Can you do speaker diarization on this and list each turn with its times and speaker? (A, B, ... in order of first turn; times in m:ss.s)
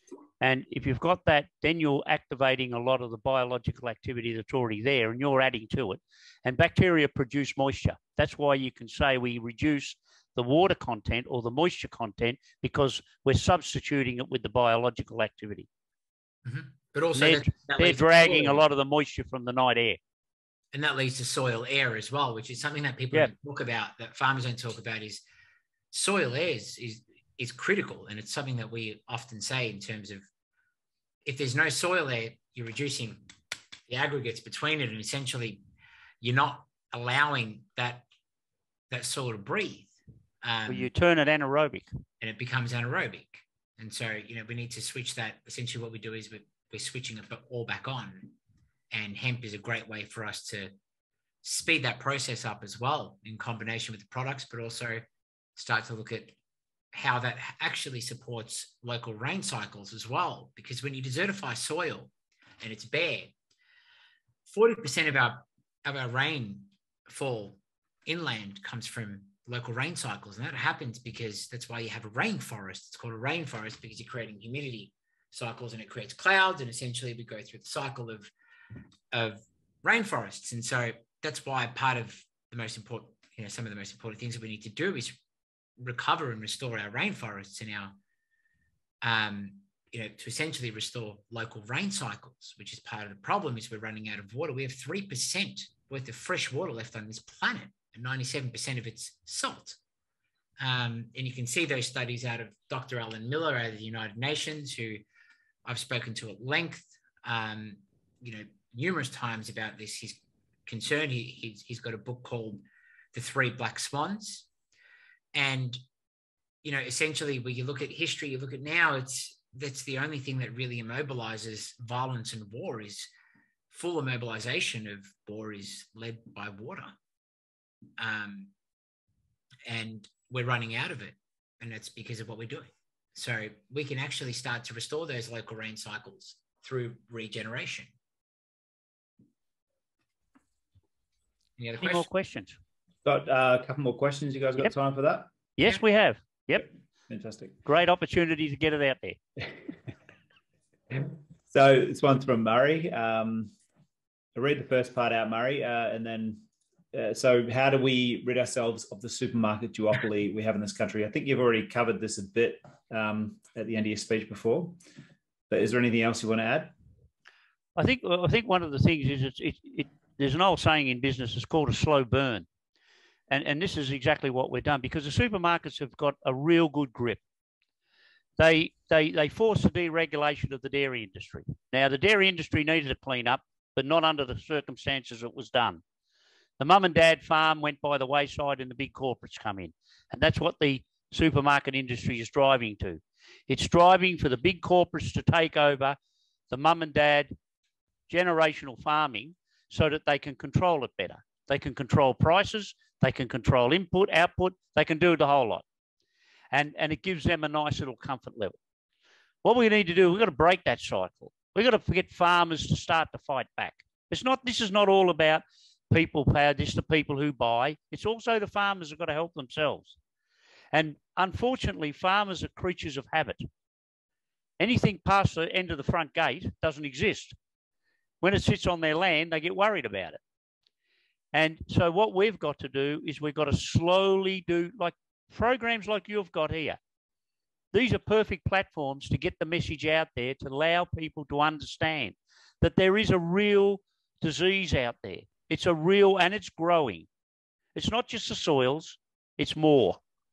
0:00.4-0:15.7 A
0:16.4-0:18.6 B
0:17.2-0:20.0 A
0:20.7-0:25.2 B
0:25.9-0:30.2 B
0:31.2-0:33.2 B
0:33.9-0:35.6 B
0:36.2-0:38.1 B
0:38.9-0:40.9 B
0:40.7-0:41.9 A
0:42.2-0:48.3 B
0:48.9-0:50.7 B
0:51.4-0:56.4 B
0:56.9-1:03.3 B
1:04.4-1:18.3 B
1:19.1-1:25.2 B
1:25.8-1:28.0 B
1:29.0-1:39.8 B
1:40.6-1:45.0 B
1:45.6-1:52.6 B
1:53.1-1:54.5 B
1:55.3-1:55.8 B
1:56.6-2:03.1 B
2:03.7-2:07.0 B
2:08.0-2:08.5 B
2:09.6-2:17.9 B
2:21.6-2:22.1 B
2:21.8-2:22.6 A
2:23.0-2:25.3 C
2:25.6-2:26.7 A
2:27.1-2:27.6 C
2:27.6-2:29.2 A
2:31.5-2:33.5 C
2:34.3-2:44.8 C
2:45.5-2:46.7 C
2:47.8-2:52.4 A
2:53.3-2:57.2 A
2:58.4-3:05.8 A
3:06.6-3:16.0 A
3:16.5-3:17.3 A
3:18.1-3:25.6 A
3:26.5-3:28.6 A
3:29.4-3:40.0 A
3:40.7-3:43.5 A
3:44.6-3:47.3 A
3:48.2-3:50.2 A
3:51.3-3:56.8 A
3:57.7-4:07.1 A
4:07.8-4:10.0 A